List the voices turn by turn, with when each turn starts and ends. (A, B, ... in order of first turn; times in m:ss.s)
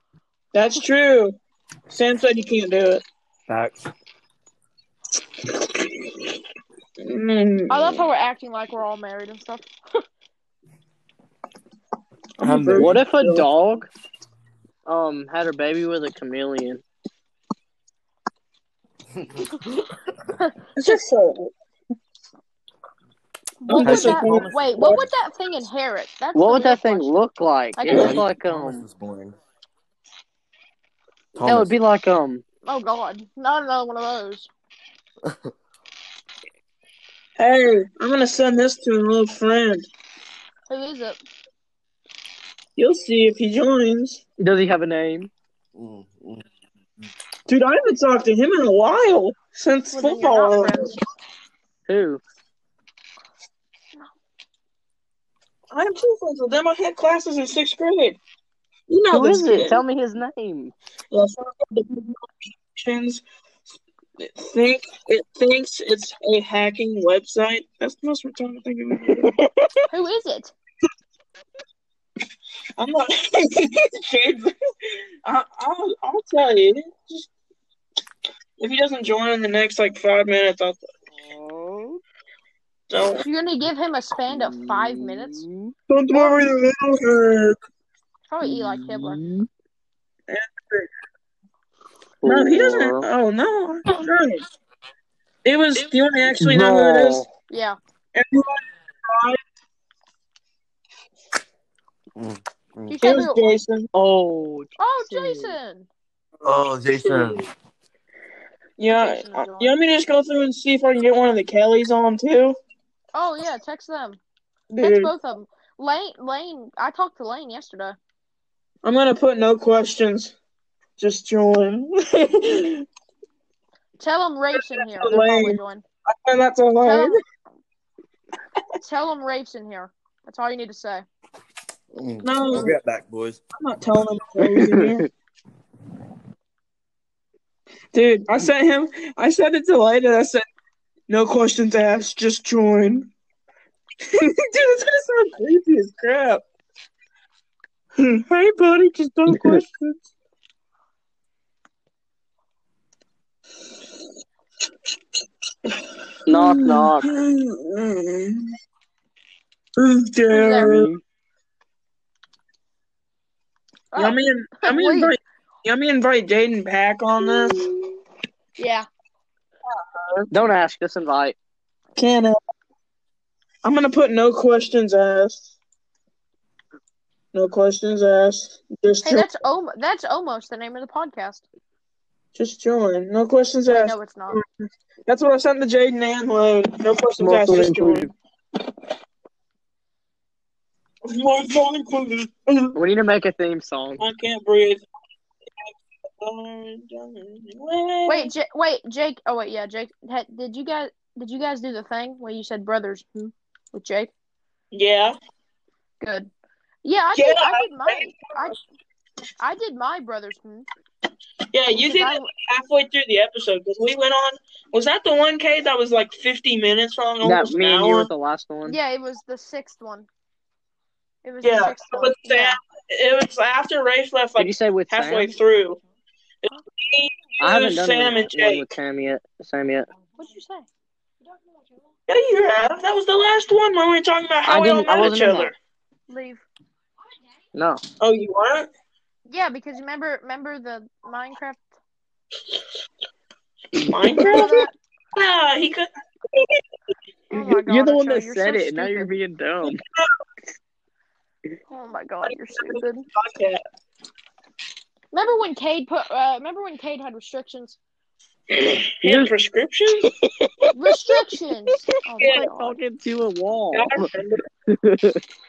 0:00.5-0:01.4 A
0:01.9-0:03.0 A
0:03.5-0:03.9 B
0:07.0-0:08.1 A
0:07.7-0:09.7 C
0:12.4-0:13.4 A
0:12.4-0:13.0 B
0:12.8-0:13.9 D
0:14.8-0:16.8 D
0:20.4-0:21.0 C
0:20.8-0:21.5 A
0:23.6-0:27.1 C
0:23.7-0:25.0 A
0:23.8-0:25.0 B
0:26.3-0:28.8 D
0:27.8-0:28.2 C
0:27.9-0:29.4 B
0:31.3-0:31.7 B
0:31.4-0:32.4 D
0:32.6-0:34.5 C
0:37.4-0:39.8 A
0:40.7-0:41.2 C
0:42.8-0:44.2 A
0:44.4-0:45.3 D
0:45.7-0:46.4 B
0:47.5-0:50.9 A
0:49.9-0:51.0 C
0:51.9-0:52.2 D
0:55.7-0:58.2 A
0:58.9-0:59.8 A
0:59.1-1:00.7 D
1:01.1-1:02.2 A
1:02.7-1:03.2 A
1:04.2-1:09.8 A
1:09.9-1:10.5 C
1:12.8-1:14.5 A
1:15.2-1:17.3 A
1:18.6-1:20.8 A
1:21.2-1:22.0 D
1:22.9-1:23.2 A
1:23.1-1:25.4 C
1:24.3-1:25.7 D
1:25.9-1:27.6 A
1:26.1-1:26.5 C
1:28.3-1:29.2 C
1:28.4-1:29.5 D
1:30.3-1:30.9 A
1:32.2-1:33.1 D
1:32.2-1:34.4 A
1:35.4-1:37.2 A
1:36.4-1:37.3 D
1:37.5-1:37.8 C
1:38.1-1:39.4 A
1:42.2-1:43.0 B
1:42.9-1:43.6 C
1:43.0-1:43.9 A
1:43.9-1:45.6 D
1:44.8-1:45.9 C
1:46.4-1:47.4 B
1:48.8-1:52.6 A
1:48.9-1:49.7 C
1:53.1-1:54.2 C
1:54.7-1:55.1 A
1:54.8-1:58.0 C
1:58.8-2:00.3 A
2:01.0-2:02.8 A
2:04.0-2:05.8 C
2:04.5-2:07.2 A
2:06.8-2:07.2 C
2:08.8-2:11.0 C
2:11.9-2:13.4 B
2:12.2-2:12.7 A
2:13.5-2:15.1 A
2:14.4-2:15.0 D
2:17.9-2:20.4 A
2:21.1-2:23.1 A
2:24.0-2:26.4 A
2:28.0-2:30.0 A
2:29.3-2:29.6 D
2:36.3-2:37.1 D
2:36.3-2:38.5 A
2:39.8-2:40.9 A
2:40.3-2:40.9 C
2:40.7-2:41.0 D
2:43.9-2:45.1 C
2:44.0-2:47.7 A
2:47.2-2:47.5 C
2:48.6-2:48.9 C
2:49.7-2:50.3 A
2:50.3-2:51.4 D
2:52.0-2:52.4 A
2:53.6-2:55.5 A
2:57.3-2:59.3 A
2:59.0-3:01.4 C
3:02.4-3:08.1 A
3:03.7-3:04.4 C
3:07.2-3:08.1 D
3:11.0-3:12.8 A
3:12.7-3:14.0 D
3:14.0-3:14.8 A
3:15.6-3:18.3 A
3:18.1-3:24.1 C
3:24.7-3:25.2 A
3:26.0-3:26.3 C
3:26.8-3:28.6 C
3:27.1-3:28.5 A
3:29.4-3:30.7 C
3:31.5-3:38.1 A
3:31.8-3:32.3 C
3:37.2-3:38.8 D
3:38.6-3:40.1 C
3:41.2-3:42.6 C
3:41.4-3:45.8 A
3:44.4-3:45.3 D
3:46.4-3:48.6 A
3:47.4-3:49.9 D
3:50.2-3:50.7 C
3:51.2-3:51.5 C
3:52.1-3:55.5 A
3:54.4-3:55.5 D
3:56.1-3:56.4 C
3:57.5-3:57.8 D
3:58.0-3:58.7 A
3:59.3-4:01.7 C
4:03.7-4:04.2 D
4:03.9-4:06.6 A
4:04.2-4:04.7 C
4:07.3-4:09.1 C
4:07.7-4:09.8 D
4:11.7-4:13.0 C
4:12.2-4:13.6 A
4:15.1-4:17.8 C
4:18.5-4:20.1 A
4:19.0-4:19.3 D
4:20.7-4:22.8 C
4:22.2-4:22.4 A
4:22.2-4:24.1 D
4:23.7-4:24.4 A
4:24.7-4:25.2 D